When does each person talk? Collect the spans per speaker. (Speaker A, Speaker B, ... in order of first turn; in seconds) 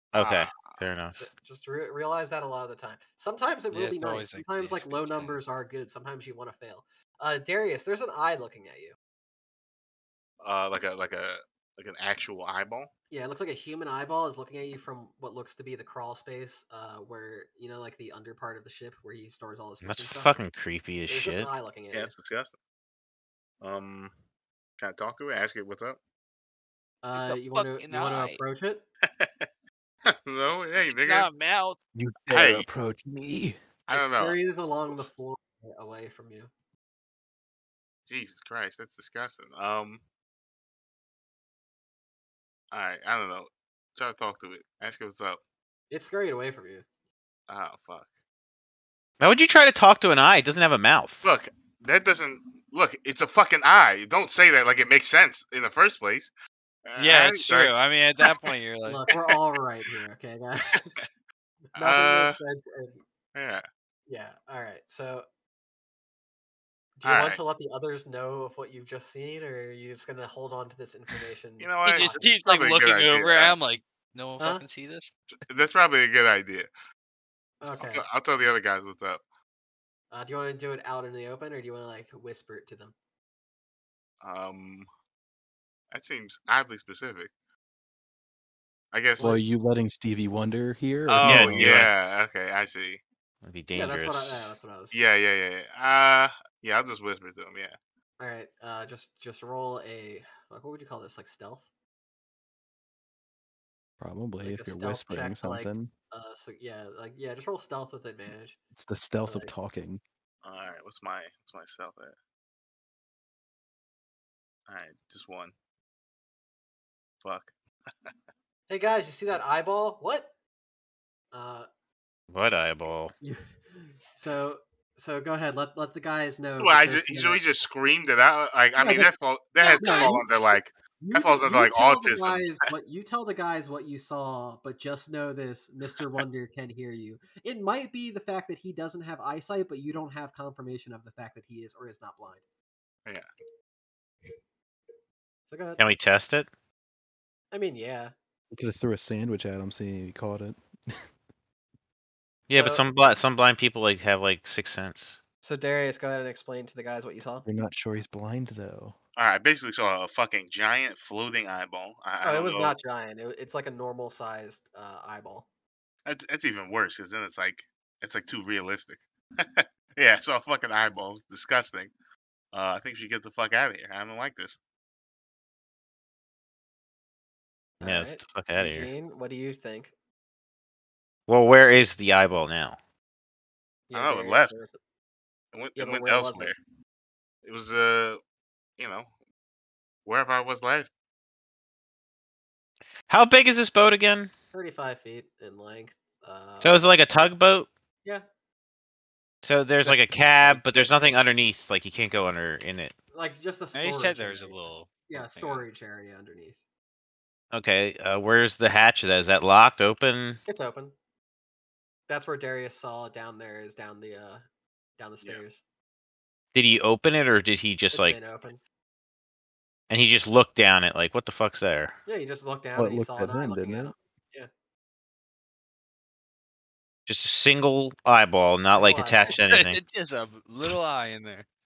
Speaker A: 0.1-1.2, 19.8-21.5, 49.2-51.2, 91.2-91.9, 93.4-94.5, 122.3-123.1, 145.8-146.5, 152.5-155.2, 177.8-178.9, 181.3-182.8, 193.1-194.3, 196.6-197.7, 199.4-202.9, 207.5-210.4, 216.5-218.2, 219.9-222.0, 227.1-229.8
Speaker B: 0.2-0.8, 10.4-12.9, 21.9-22.6, 23.6-24.1, 24.8-26.0, 29.1-29.4, 30.1-31.3, 32.3-32.7, 33.9-34.4, 38.1-40.0, 42.7-45.4, 47.5-48.1, 51.2-56.3, 56.9-58.5, 61.8-62.4, 63.4-63.6, 67.0-67.4, 71.6-73.5, 75.3-76.7, 77.8-79.2, 84.2-84.9, 85.9-87.3, 88.9-89.4, 91.1-93.0, 94.9-97.8, 110.4-112.2, 114.7-115.5, 117.2-117.5, 126.6-132.6, 159.2-162.8, 166.1-171.9, 172.5-174.6, 183.9-184.5, 185.5-186.6, 187.4-188.2, 188.8-189.1, 190.1-190.9
Speaker C: 1.2-9.0, 13.1-20.4, 21.1-22.1, 27.0-28.8, 33.9-36.5, 45.9-46.9, 58.9-61.0, 61.8-63.0, 64.1-65.3, 67.0-72.2, 77.6-78.0, 80.1-82.9, 93.7-95.0, 98.2-101.7, 104.4-108.6, 109.3-109.5, 118.7-120.3, 121.3-121.7, 123.2-127.4, 128.8-130.2, 131.0-142.4, 145.5-145.8, 147.5-148.1, 152.5-152.9, 155.4-157.5, 162.2-165.5, 177.8-179.9, 183.9-184.8, 185.8-186.5, 194.5-196.9, 199.8-200.6, 203.1-206.6, 210.5-210.9, 212.1-214.4, 215.0-215.6, 217.9-218.6, 222.1-224.5, 228.7-229.4
Speaker D: 3.7-5.4, 27.1-28.4, 31.0-31.8, 57.0-59.0, 71.8-75.1, 203.7-205.7, 229.2-231.4
Speaker E: 31.9-33.6, 89.2-91.8, 104.0-105.9, 108.7-110.0, 148.5-151.0, 157.5-159.0, 222.8-223.9